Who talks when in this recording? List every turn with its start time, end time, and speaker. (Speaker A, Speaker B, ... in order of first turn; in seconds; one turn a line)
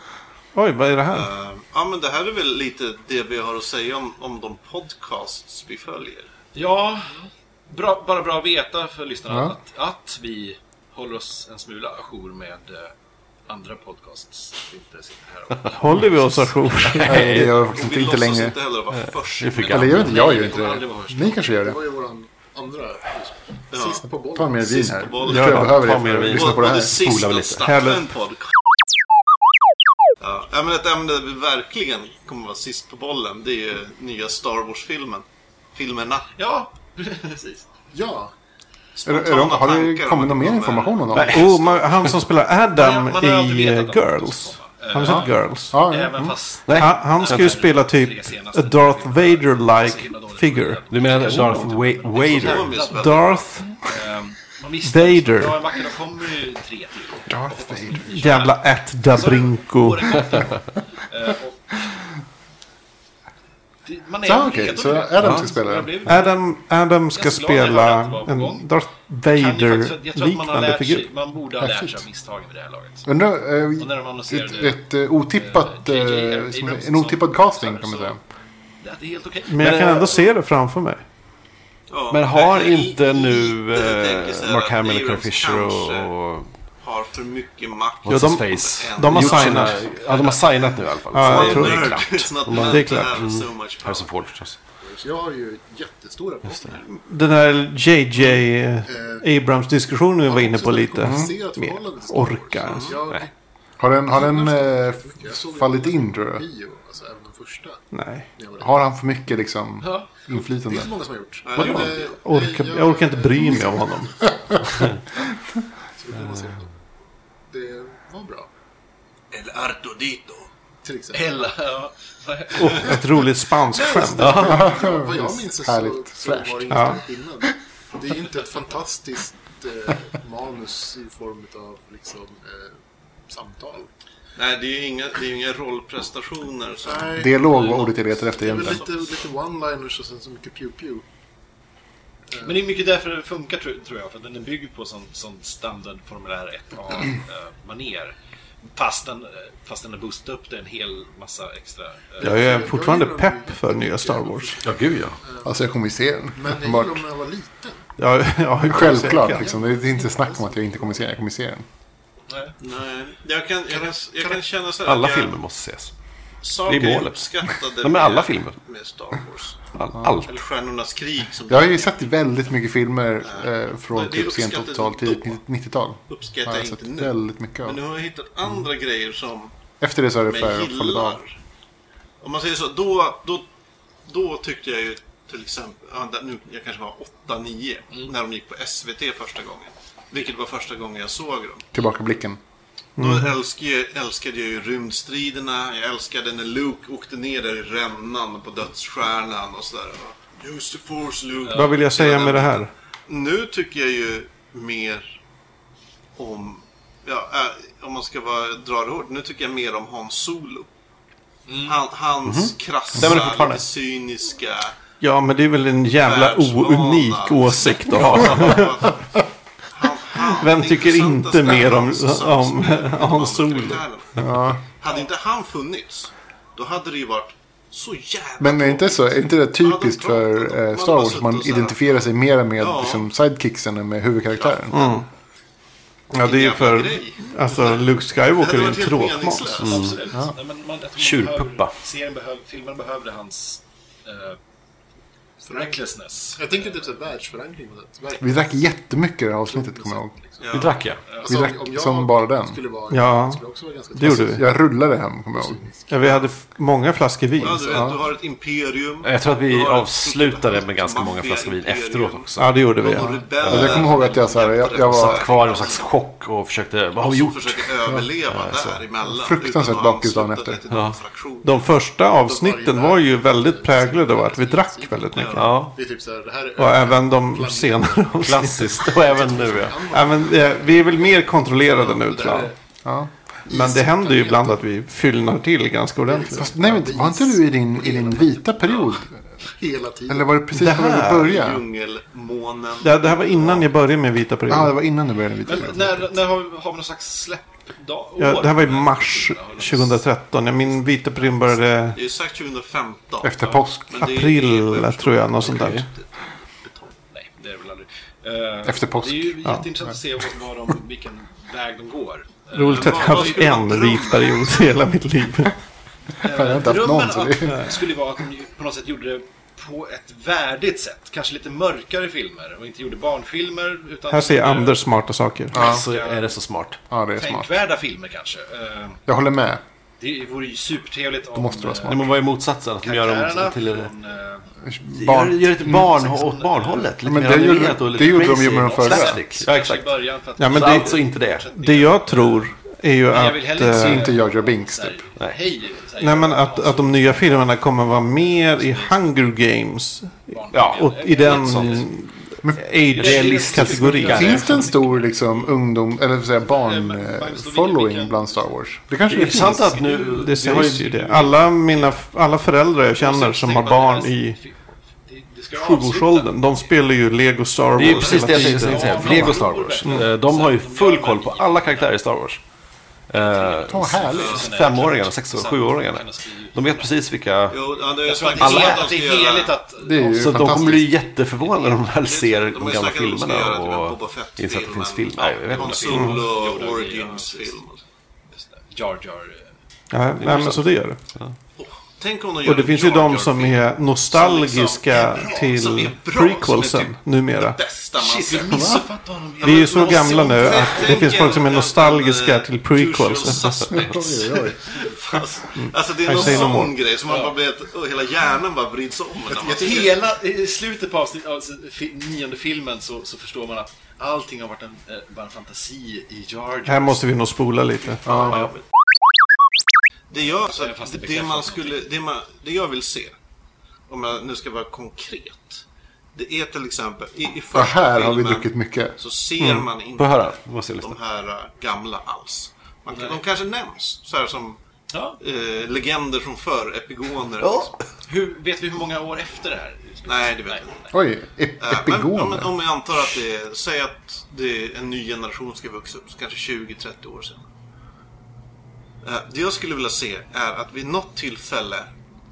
Speaker A: 0.5-1.3
Speaker B: 1.1-6.3
Speaker C: 6.5-12.9
Speaker D: 9.3-9.5
Speaker C: 13.5-17.0
Speaker A: 15.7-17.3
Speaker E: 16.8-17.6
Speaker D: 17.0-18.6
Speaker B: 17.5-20.0
Speaker E: 19.4-20.2
Speaker D: 19.7-21.8
Speaker C: 19.8-21.5
Speaker F: 20.2-20.7
Speaker F: 21.5-25.1
Speaker B: 23.7-24.0
Speaker D: 24.3-27.0
Speaker B: 24.6-28.5
Speaker A: 25.3-25.7
Speaker E: 25.3-27.8
Speaker A: 27.6-28.0
Speaker B: 30.2-36.3
Speaker C: 36.4-37.6
Speaker F: 37.9-38.3
Speaker B: 39.0-42.1
Speaker D: 39.0-41.4
Speaker E: 41.1-41.5
Speaker A: 41.3-45.8
Speaker C: 42.7-62.0
Speaker D: 45.0-46.4
Speaker E: 46.6-47.5
Speaker A: 46.7-51.5
Speaker E: 50.9-52.8
Speaker B: 52.2-53.5
Speaker A: 52.9-53.7
Speaker A: 54.8-55.6
Speaker D: 57.3-58.2
Speaker A: 58.0-60.4
Speaker C: 63.8-66.4
Speaker D: 64.2-66.0
Speaker E: 65.2-65.5
Speaker A: 66.0-71.1
Speaker C: 67.1-68.7
Speaker C: 69.3-73.1
Speaker D: 71.6-72.0
Speaker D: 73.0-78.2
Speaker C: 73.8-78.2
Speaker C: 78.8-80.2
Speaker A: 79.5-81.0
Speaker E: 79.6-80.3
Speaker B: 81.9-86.1
Speaker E: 82.1-86.5
Speaker B: 86.8-94.1
Speaker E: 88.0-94.6
Speaker A: 88.1-89.8
Speaker A: 91.1-93.2
Speaker F: 94.8-96.8
Speaker A: 96.9-103.0
Speaker F: 98.2-99.3
Speaker F: 100.3-103.3
Speaker D: 101.0-101.4
Speaker B: 102.6-103.0
Speaker D: 103.8-106.5
Speaker F: 104.1-107.8
Speaker A: 107.9-108.3
Speaker F: 108.3-108.8
Speaker D: 108.6-110.9
Speaker C: 109.8-110.1
Speaker F: 110.3-115.3
Speaker B: 111.4-112.2
Speaker A: 111.5-114.3
Speaker F: 116.0-116.7
Speaker F: 117.5-118.5
Speaker B: 119.3-120.5
Speaker F: 120.8-121.4
Speaker C: 121.1-123.0
Speaker A: 122.5-124.5
Speaker F: 123.7-133.9
Speaker E: 124.2-124.6
Speaker D: 124.2-127.0
Speaker A: 126.7-127.0
Speaker B: 134.3-137.2
Speaker F: 137.0-141.0
Speaker D: 137.2-138.8
Speaker B: 138.6-138.8
Speaker C: 142.4-148.1
Speaker C: 148.7-152.6
Speaker F: 152.2-155.6
Speaker A: 152.2-154.7
Speaker E: 154.6-155.2
Speaker D: 155.4-157.0
Speaker F: 156.3-157.9
Speaker A: 158.0-159.5
Speaker D: 158.6-161.6
Speaker F: 158.7-161.1
Speaker B: 162.6-165.4
Speaker E: 164.8-165.9
Speaker B: 166.4-169.7
Speaker E: 166.7-168.6
Speaker E: 169.7-170.4
Speaker B: 170.2-171.9
Speaker D: 171.5-177.8
Speaker B: 173.2-175.4
Speaker B: 176.1-179.5
Speaker D: 179.8-181.2
Speaker B: 180.3-181.3
Speaker B: 182.2-183.4
Speaker B: 184.1-191.7
Speaker D: 191.7-192.4
Speaker A: 193.0-193.3
Speaker B: 193.0-205.2
Speaker C: 201.5-201.7
Speaker A: 201.5-202.7
Speaker B: 206.2-210.7
Speaker C: 211.5-211.8
Speaker B: 211.6-214.8
Speaker E: 212.2-213.7
Speaker A: 215.0-218.9
Speaker B: 216.0-219.2
Speaker B: 219.7-231.8
Speaker A: 220.3-223.8
Speaker D: 224.2-224.6
Speaker D: 228.4-234.8
Speaker B: 232.6-233.1
Speaker B: 234.4-235.0
Speaker A: 234.7-235.1
Speaker A: 236.1-239.6
Speaker B: 236.2-240.0
Speaker E: 239.6-239.9
Speaker C: 239.6-244.4
Speaker E: 241.0-241.7
Speaker F: 245.4-245.8
Speaker C: 245.4-246.8
Speaker F: 246.3-248.7
Speaker D: 248.2-250.1
Speaker F: 249.5-254.6
Speaker B: 250.4-250.9
Speaker E: 250.5-251.0
Speaker D: 251.2-252.6
Speaker A: 252.9-253.4
Speaker A: 253.9-254.4
Speaker D: 254.0-255.6
Speaker F: 255.3-256.0
Speaker A: 255.9-257.8
Speaker B: 257.4-265.9
Speaker D: 257.6-258.0
Speaker E: 259.0-262.6
Speaker A: 262.4-263.1
Speaker E: 263.4-264.1
Speaker D: 263.4-265.3
Speaker E: 264.8-267.7
Speaker B: 267.0-271.6
Speaker E: 268.3-268.9
Speaker D: 269.0-270.6
Speaker E: 270.7-271.0
Speaker A: 271.4-275.5
Speaker F: 272.2-282.5
Speaker B: 275.1-275.4
Speaker E: 275.4-275.8
Speaker A: 276.6-278.9
Speaker E: 278.2-279.9
Speaker A: 279.9-282.5
Speaker E: 282.2-282.5
Speaker D: 282.8-283.1
Speaker A: 283.5-286.5
Speaker F: 283.5-284.6
Speaker F: 286.1-290.4
Speaker D: 286.3-289.2
Speaker D: 290.1-291.6
Speaker A: 290.5-291.3
Speaker B: 291.1-293.7
Speaker A: 292.8-294.8
Speaker D: 294.5-296.1
Speaker C: 295.4-300.0
Speaker A: 298.2-302.0
Speaker C: 300.7-301.6
Speaker B: 301.9-306.9
Speaker D: 303.2-304.0
Speaker A: 304.0-305.8
Speaker E: 305.5-305.8
Speaker C: 307.1-314.2
Speaker D: 308.6-309.4
Speaker A: 312.5-315.5
Speaker B: 312.7-314.6
Speaker C: 316.2-324.9
Speaker D: 316.2-317.7
Speaker A: 324.1-325.6
Speaker C: 325.5-326.4
Speaker E: 325.5-326.8
Speaker D: 325.6-325.8
Speaker D: 326.9-327.5
Speaker C: 327.2-329.0
Speaker D: 329.1-329.6
Speaker C: 330.0-332.2
Speaker D: 331.3-332.1
Speaker E: 331.9-333.9
Speaker C: 332.8-334.5
Speaker D: 334.6-335.9
Speaker E: 334.9-339.9
Speaker C: 335.6-342.5
Speaker D: 337.0-339.2
Speaker A: 340.4-341.0
Speaker E: 340.5-341.5
Speaker A: 341.5-344.1
Speaker C: 343.1-349.0
Speaker D: 343.7-344.9
Speaker A: 346.0-354.7
Speaker C: 350.3-351.9
Speaker E: 350.5-351.9
Speaker D: 352.4-352.7
Speaker C: 352.9-355.5
Speaker E: 352.9-354.7
Speaker D: 354.1-359.8
Speaker C: 356.4-358.6
Speaker E: 359.1-361.4
Speaker A: 359.9-364.4
Speaker C: 362.9-366.7
Speaker A: 365.6-370.0
Speaker E: 367.7-372.4
Speaker B: 367.8-368.4
Speaker C: 368.0-372.0
Speaker E: 373.1-377.6
Speaker C: 373.1-376.9
Speaker D: 373.7-374.4
Speaker B: 374.1-374.5
Speaker B: 377.5-379.6
Speaker C: 377.9-382.0
Speaker E: 378.4-378.9
Speaker D: 379.8-381.0
Speaker E: 380.1-386.0
Speaker B: 382.0-387.8
Speaker C: 385.5-387.6
Speaker C: 388.3-389.5
Speaker A: 389.9-391.0
Speaker E: 390.2-391.3
Speaker B: 391.6-410.0
Speaker A: 392.4-397.6
Speaker C: 398.0-401.4
Speaker D: 398.5-398.8
Speaker A: 399.4-403.5
Speaker D: 403.7-404.6
Speaker A: 405.6-406.8
Speaker C: 406.3-407.3
Speaker C: 409.4-417.0
Speaker F: 409.4-409.9
Speaker A: 416.6-418.1
Speaker B: 418.0-418.6
Speaker B: 420.1-423.1
Speaker C: 420.5-421.8
Speaker B: 423.9-434.6
Speaker D: 427.5-428.9
Speaker A: 429.4-429.6
Speaker E: 429.9-431.0
Speaker C: 432.9-433.2
Speaker C: 434.9-435.2
Speaker B: 435.2-437.7
Speaker E: 437.4-437.8
Speaker C: 438.0-440.8
Speaker B: 440.1-440.7
Speaker D: 440.9-442.5
Speaker B: 441.6-447.5
Speaker B: 449.0-451.9